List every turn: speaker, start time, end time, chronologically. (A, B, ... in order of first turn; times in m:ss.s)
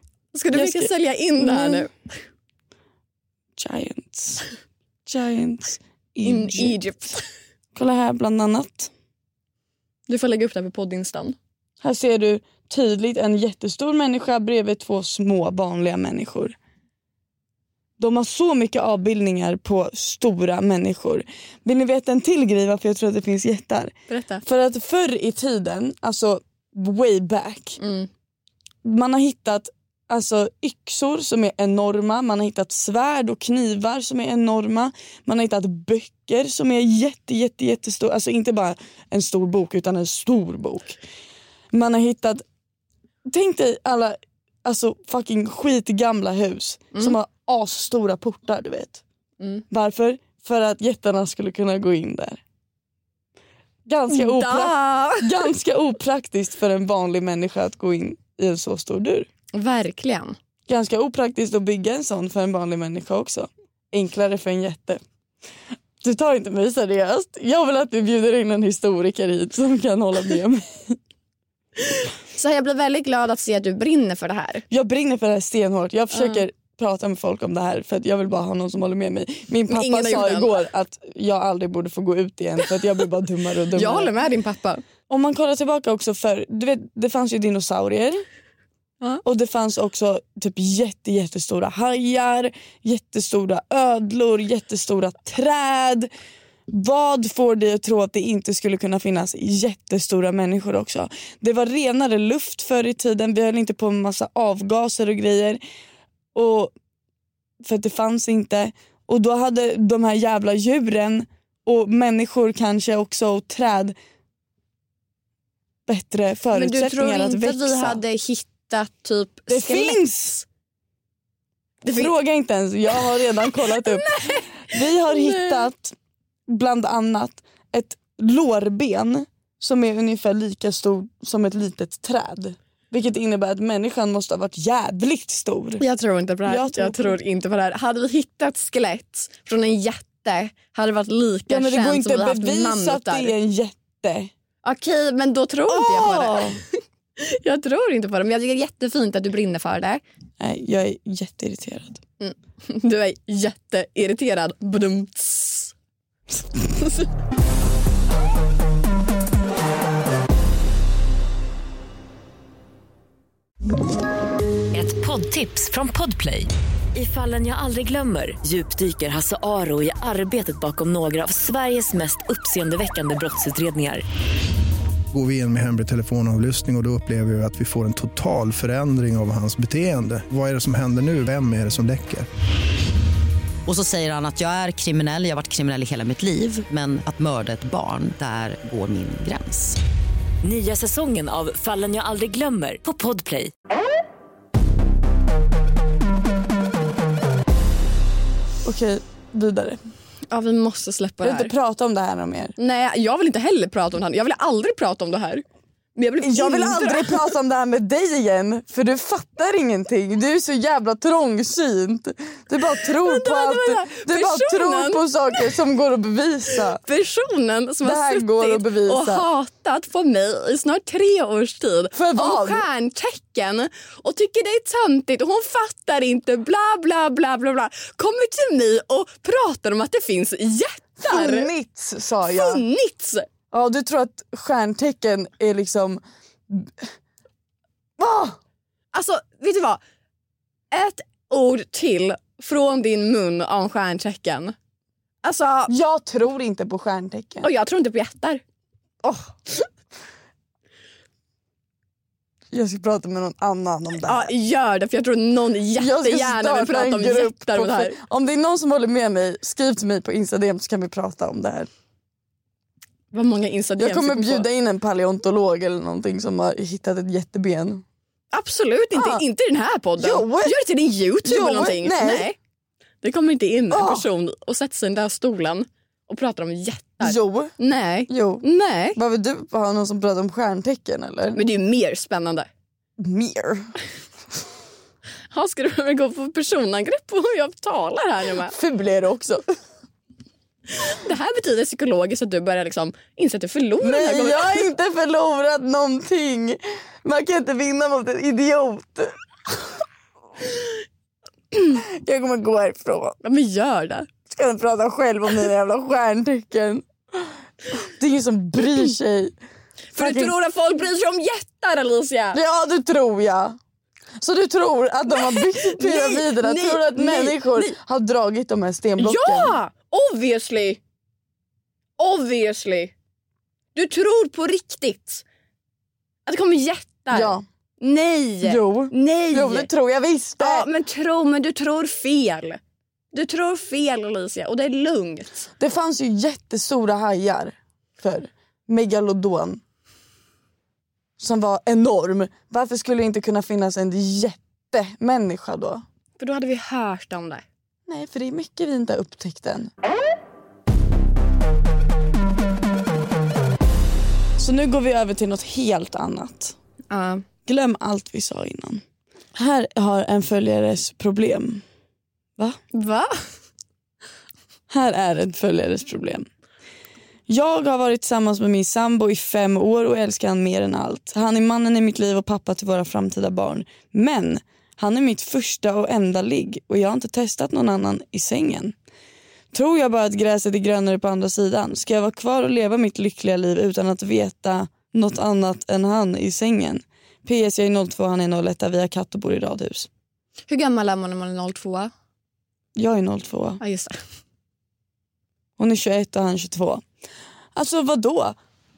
0:00.3-0:01.9 A
0:00.5-0:01.9 B
0:03.6-0:04.4 B
0:05.0-0:06.8 B
0:06.2-0:07.3 A
0:07.7-0:08.9 B
0:10.1-0:11.4 A
0:11.8-0:16.5 B
0:18.0-0:27.8 B
0:24.1-0:24.4 A
0:27.8-0:28.1 A
0:28.8-0:41.0 B
0:41.7-0:42.4 B
0:43.3-0:49.0 B
0:49.7-0:52.4 B
0:53.8-0:59.3 B
0:54.1-0:55.5 A
0:59.5-1:00.4 A
1:00.7-1:05.0 B
1:06.0-1:11.0 B
1:12.0-1:14.6 A
1:14.7-1:24.1 B
1:16.1-1:16.4 A
1:19.7-1:20.6 A
1:23.7-1:24.8 A
1:25.1-1:28.2 B
1:29.2-1:36.1 B
1:36.7-1:45.6 B
1:46.3-1:46.7 B
1:47.6-1:54.0 B
1:55.9-1:58.0 B
1:56.5-2:00.0 A
1:59.5-2:00.4 B
2:01.8-2:02.1 A
2:01.9-2:06.0 B
2:02.9-2:05.7 A
2:06.5-2:15.8 B
2:15.8-2:23.3 A
2:16.4-2:17.2 B
2:21.5-2:24.3 B
2:24.6-2:26.6 A
2:25.7-2:26.6 B
2:27.2-2:30.0 A
2:30.4-2:32.0 B
2:32.2-2:35.7 A
2:36.7-2:37.1 A
2:44.7-2:54.0 C
2:55.1-3:02.3 D
3:03.6-3:09.8 E
3:10.4-3:13.5 C
3:18.6-3:19.8 B
3:20.3-3:21.5 A
3:21.2-3:22.5 B
3:22.6-3:25.4 A
3:26.0-3:27.3 A
3:26.2-3:36.8 B
3:33.0-3:35.4 A
3:36.5-3:51.5 A
3:37.8-3:39.2 B
3:41.9-3:42.6 B
3:51.0-3:52.6 B
3:52.2-3:53.2 A
3:53.5-3:56.9 B
3:58.0-3:58.4 B
3:58.9-3:59.8 A
4:00.7-4:04.5 A
4:05.2-4:05.7 A
4:05.7-4:07.5 B
4:07.4-4:08.4 A
4:09.0-4:09.7 A
4:12.5-4:14.3 B
4:14.0-4:18.0 A
4:15.8-4:21.7 B
4:23.1-4:24.5 A
4:23.8-4:27.8 B
4:28.3-4:32.4 A
4:28.9-4:29.2 B
4:30.0-4:30.6 B
4:31.2-4:32.3 B
4:33.0-4:39.0 A
4:33.7-4:34.0 B
4:37.0-4:37.5 B
4:38.1-4:41.4 B
4:41.3-4:42.5 A
4:43.0-4:43.7 B
4:45.3-4:48.6 A
4:48.4-4:49.5 B
4:50.7-4:54.7 A
4:53.8-4:59.8 B
5:01.7-5:03.2 B
5:03.2-5:04.1 A
5:04.3-5:09.3 B
5:09.9-5:12.4 A
5:10.0-5:10.3 B
5:12.3-5:13.6 B
5:14.2-5:19.5 B
5:15.1-5:17.8 A
5:19.0-5:20.8 A
5:22.0-5:22.9 A
5:23.7-5:25.2 A
5:26.2-5:29.7 A
5:27.1-5:27.4 B
5:28.4-5:30.7 B
5:30.4-5:32.6 A
5:33.1-5:35.5 A
5:35.6-5:39.6 B
5:41.2-5:45.8 B
5:46.2-5:47.4 A
5:47.9-5:49.7 B
5:54.4-5:56.6 B
5:56.9-5:57.2 A
5:57.4-5:58.8 B
5:59.3-6:01.6 B
6:02.7-6:03.2 A
6:04.7-6:06.2 B
6:07.3-6:18.7 B
6:19.5-6:29.9 B
6:30.5-6:31.9 A
6:32.8-6:33.6 B
6:33.6-6:34.0 A
6:35.6-6:36.8 B
6:37.5-6:38.4 B